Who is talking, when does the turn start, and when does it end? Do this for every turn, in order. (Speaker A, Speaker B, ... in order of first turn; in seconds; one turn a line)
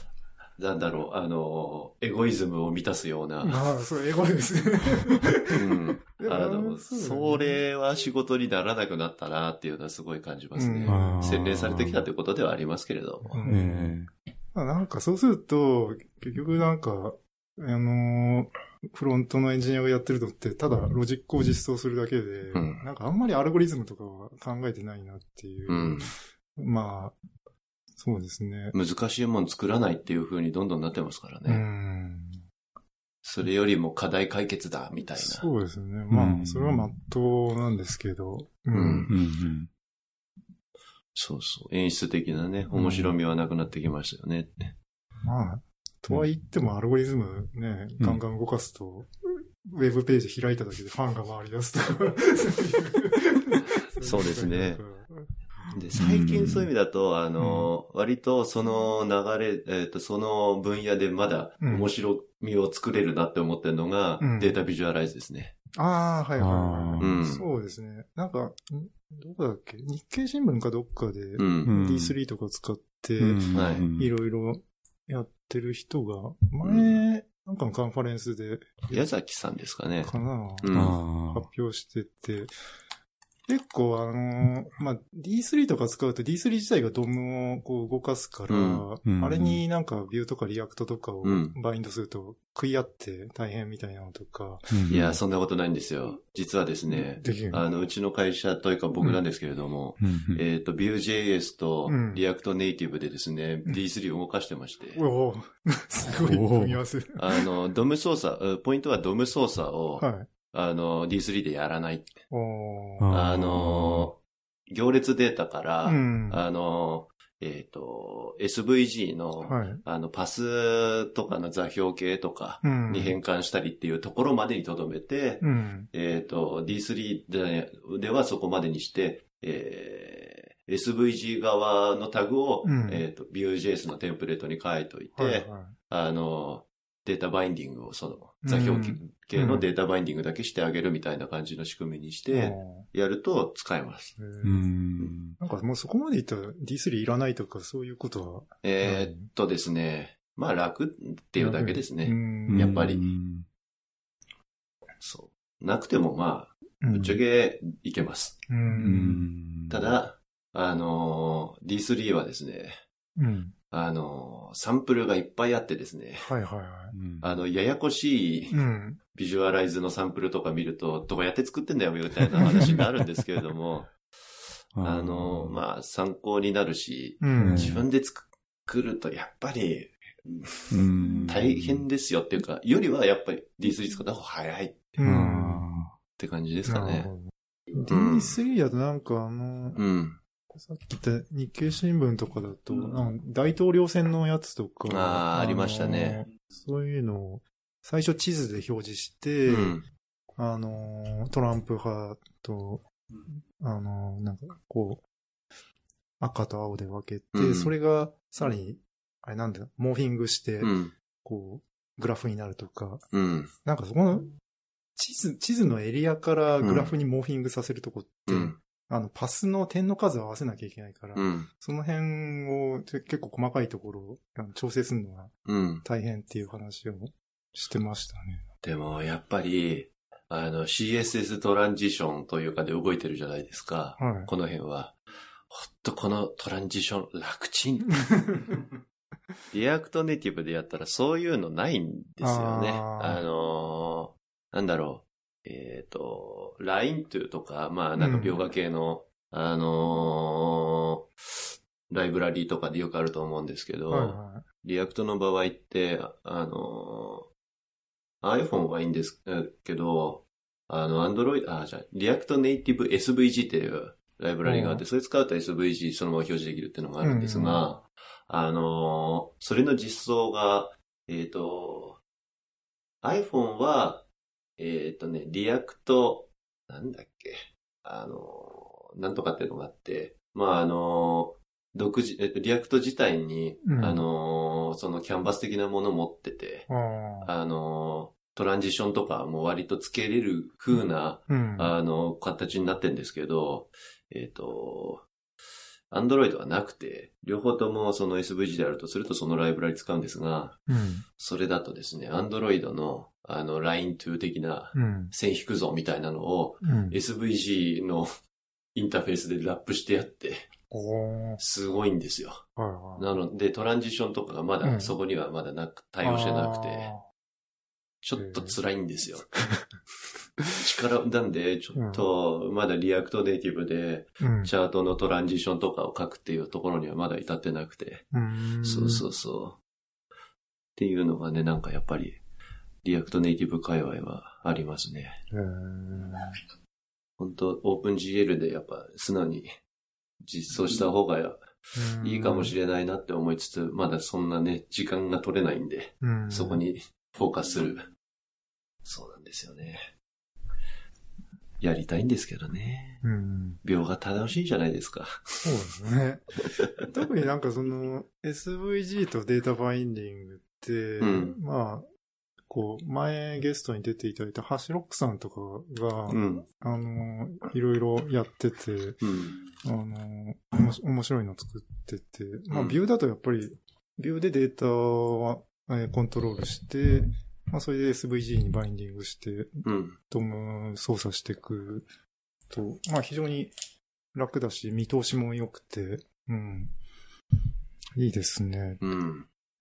Speaker A: 0.6-3.6
Speaker B: 3.4-7.6
Speaker A: 5.5-13.4
Speaker B: 10.6-11.2
Speaker C: 10.9-12.1
Speaker B: 13.2-14.0
Speaker C: 13.4-14.1
Speaker B: 14.5-27.2
Speaker A: 22.5-22.8
Speaker A: 25.7-26.1
Speaker B: 28.0-28.8
Speaker A: 28.7-31.6
Speaker B: 31.5-32.4
Speaker A: 33.2-35.5
Speaker B: 35.2-39.1
Speaker C: 36.1-36.9
Speaker A: 38.7-39.1
Speaker C: 39.1-39.7
Speaker A: 41.1-44.7
Speaker C: 42.8-43.1
Speaker B: 45.2-55.9
Speaker A: 54.0-54.8
Speaker A: 55.7-65.5
Speaker C: 56.0-56.7
Speaker B: 57.4-57.7
Speaker B: 61.6-61.9
Speaker B: 64.2-64.5
Speaker B: 65.8-79.0
Speaker C: 66.4-67.2
Speaker A: 67.0-67.5
Speaker A: 71.4-71.8
Speaker C: 71.7-72.2
Speaker C: 73.2-74.1
Speaker A: 73.5-73.9
Speaker A: 76.6-77.0
Speaker A: 78.9-81.0
Speaker B: 80.0-82.5
Speaker C: 80.7-81.5
Speaker B: 83.5-94.8
Speaker A: 88.5-88.9
Speaker C: 89.0-89.6
Speaker A: 91.2-91.6
Speaker C: 94.7-95.2
Speaker A: 94.9-105.0
Speaker B: 96.9-97.7
Speaker C: 100.0-100.4
Speaker B: 101.9-102.2
Speaker B: 105.0-107.5
Speaker C: 106.2-106.8
Speaker A: 107.2-112.2
Speaker B: 110.0-110.3
Speaker B: 112.3-113.1
Speaker C: 113.0-114.1
Speaker A: 113.1-144.2
Speaker B: 115.8-116.4
Speaker B: 119.4-119.8
Speaker B: 122.6-123.2
Speaker B: 125.4-125.9
Speaker B: 132.6-133.1
Speaker B: 135.2-135.8
Speaker B: 138.4-139.7
Speaker B: 142.3-142.9
Speaker B: 144.2-144.7
Speaker C: 144.4-145.4
Speaker B: 145.4-149.3
Speaker A: 148.6-153.0
Speaker B: 151.4-152.8
Speaker C: 152.5-153.5
Speaker A: 155.0-158.4
Speaker B: 156.8-157.2
Speaker B: 158.5-159.3
Speaker C: 158.7-160.0
Speaker A: 159.7-162.8
Speaker B: 163.2-163.6
Speaker A: 163.7-166.3
Speaker B: 166.2-166.9
Speaker C: 166.9-167.3
Speaker A: 167.2-168.6
Speaker B: 168.5-169.0
Speaker A: 169.1-174.0
Speaker C: 174.8-175.6
Speaker A: 174.8-185.0
Speaker B: 177.2-177.8
Speaker C: 177.4-177.9
Speaker C: 180.7-181.8
Speaker B: 185.0-185.7
Speaker C: 185.0-185.9
Speaker A: 186.2-187.1
Speaker B: 186.7-189.8
Speaker A: 187.9-188.4
Speaker A: 189.8-190.2
Speaker B: 190.5-199.8
Speaker A: 194.9-196.3
Speaker A: 199.5-199.8
Speaker B: 200.4-205.0
Speaker B: 206.2-213.0
Speaker A: 207.3-207.7
Speaker A: 210.6-210.9
Speaker A: 213.1-213.5
Speaker B: 213.7-214.4
Speaker B: 215.0-228.4
Speaker A: 216.6-216.9
Speaker A: 218.3-218.6
Speaker A: 221.2-221.5
Speaker A: 225.5-225.8
Speaker A: 228.6-234.9
Speaker B: 234.0-234.3
Speaker A: 235.5-238.0
Speaker A: 239.5-257.3
Speaker B: 242.2-243.2
Speaker B: 248.0-248.4
Speaker B: 253.9-254.4
Speaker A: 258.2-272.0
Speaker B: 264.4-264.8
Speaker B: 267.0-267.6
Speaker A: 273.0-274.1
Speaker A: 274.6-286.7
Speaker B: 283.6-284.0
Speaker B: 286.7-287.3
Speaker A: 287.2-295.1
Speaker B: 291.3-291.7
Speaker A: 295.9-300.7
Speaker B: 300.7-301.0
Speaker A: 301.2-308.1
Speaker B: 304.7-305.1
Speaker B: 306.6-307.0
Speaker A: 308.7-310.5
Speaker B: 310.7-311.4
Speaker A: 311.4-316.9
Speaker B: 312.6-313.1
Speaker B: 314.6-315.0
Speaker B: 316.0-317.0
Speaker A: 318.0-319.3
Speaker B: 318.2-318.6
Speaker A: 320.6-328.1
Speaker B: 321.8-322.1
Speaker B: 324.2-324.5
Speaker B: 328.1-329.1
Speaker A: 328.6-329.6
Speaker A: 330.8-332.2
Speaker A: 332.8-335.2
Speaker B: 335.3-336.4
Speaker A: 337.2-339.5
Speaker A: 340.2-347.9
Speaker B: 341.8-342.5
Speaker B: 346.0-346.6
Speaker A: 348.8-349.9
Speaker A: 351.6-353.0
Speaker B: 353.0-353.6
Speaker A: 353.6-355.4
Speaker B: 355.4-356.3
Speaker B: 356.9-361.9
Speaker A: 361.0-361.4
Speaker B: 362.5-369.1
Speaker A: 366.1-366.5
Speaker A: 369.0-369.4
Speaker B: 369.6-381.9
Speaker A: 372.5-372.8
Speaker A: 379.6-380.0
Speaker B: 382.5-383.5
Speaker B: 384.1-386.8
Speaker B: 388.0-388.8
Speaker A: 388.8-389.3